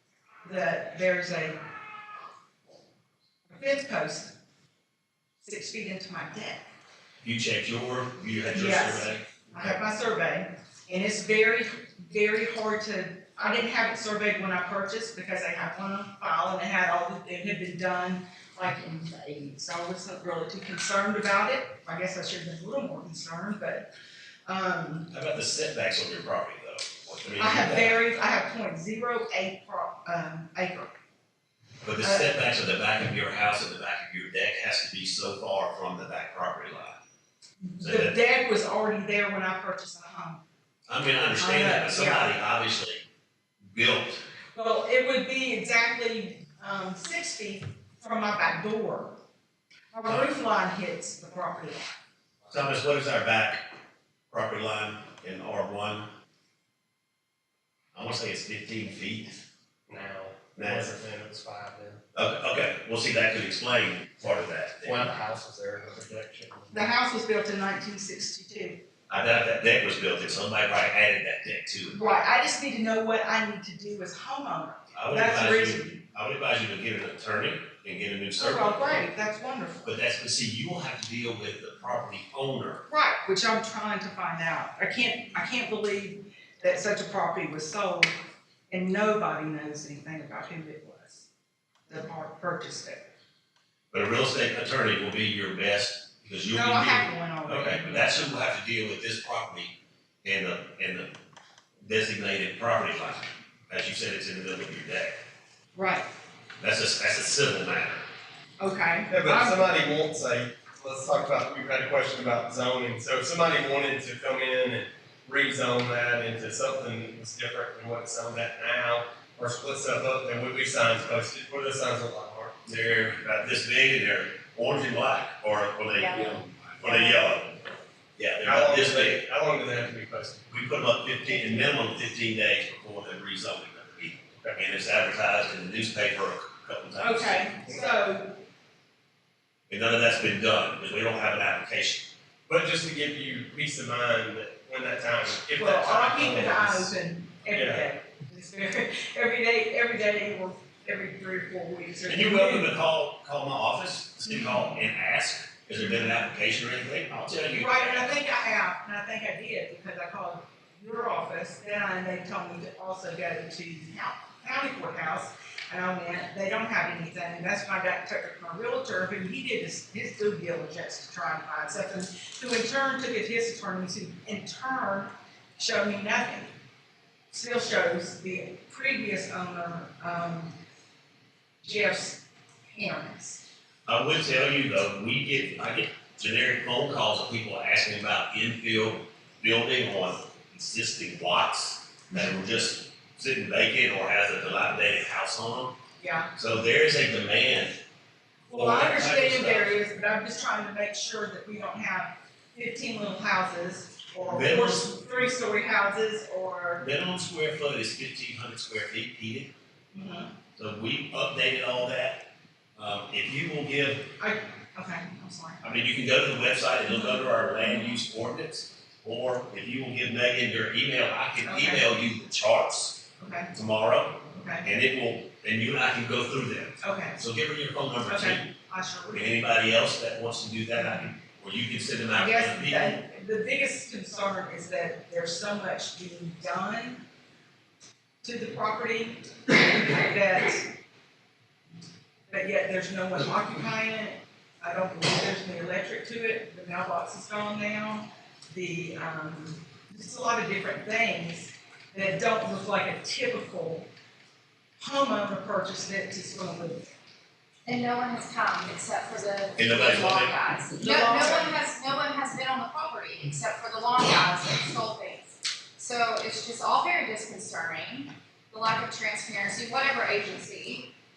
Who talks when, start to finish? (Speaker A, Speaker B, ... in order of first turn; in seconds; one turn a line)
Speaker A: 0.4-1.6
Speaker A: 3.5-4.3
Speaker A: 5.4-6.6
Speaker B: 7.2-9.2
Speaker A: 8.5-23.9
Speaker A: 24.5-25.1
Speaker B: 25.1-27.9
Speaker A: 27.4-30.9
Speaker B: 31.8-37.0
Speaker A: 37.6-40.4
Speaker B: 37.8-38.1
Speaker B: 40.9-43.0
Speaker A: 41.4-42.4
Speaker B: 43.7-44.2
Speaker A: 44.5-49.2
Speaker A: 49.9-52.0
Speaker B: 52.5-53.6
Speaker B: 54.3-56.1
Speaker B: 57.9-59.4
Speaker C: 59.9-62.0
Speaker B: 60.6-60.9
Speaker B: 62.1-65.1
Speaker C: 64.8-66.9
Speaker A: 66.7-68.8
Speaker B: 69.1-72.0
Speaker A: 71.9-76.0
Speaker B: 74.9-79.0
Speaker A: 78.4-79.9
Speaker B: 79.8-82.8
Speaker A: 82.9-88.1
Speaker A: 88.7-91.3
Speaker A: 91.9-93.0
Speaker B: 93.9-99.7
Speaker A: 96.5-98.1
Speaker B: 100.2-101.1
Speaker B: 101.8-105.1
Speaker A: 105.8-106.0
Speaker B: 106.6-108.0
Speaker A: 108.6-109.6
Speaker C: 109.1-122.7
Speaker B: 122.7-127.6
Speaker B: 128.2-129.2
Speaker C: 128.4-130.5
Speaker B: 130.5-137.5
Speaker A: 137.0-138.4
Speaker B: 139.7-142.1
Speaker C: 142.5-146.9
Speaker A: 145.6-152.7
Speaker C: 147.5-147.8
Speaker B: 152.1-158.1
Speaker A: 157.5-176.5
Speaker A: 177.3-180.6
Speaker A: 181.6-182.2
Speaker A: 182.7-183.4
Speaker B: 183.9-195.8
Speaker A: 196.0-196.3
Speaker B: 196.4-197.8
Speaker A: 198.5-206.8
Speaker B: 198.6-199.7
Speaker B: 204.3-204.9
Speaker B: 206.8-209.5
Speaker A: 209.9-210.3
Speaker B: 210.6-214.1
Speaker A: 214.2-215.6
Speaker B: 215.6-223.0
Speaker A: 221.4-221.8
Speaker A: 223.2-223.5
Speaker B: 223.5-228.5
Speaker A: 224.3-224.7
Speaker A: 226.8-227.2
Speaker A: 228.1-229.4
Speaker B: 229.1-233.0
Speaker A: 230.8-231.1
Speaker A: 232.2-237.0
Speaker A: 238.2-240.7
Speaker A: 242.3-253.9
Speaker A: 254.8-256.9
Speaker D: 257.7-270.9
Speaker B: 259.6-260.4
Speaker A: 260.8-261.6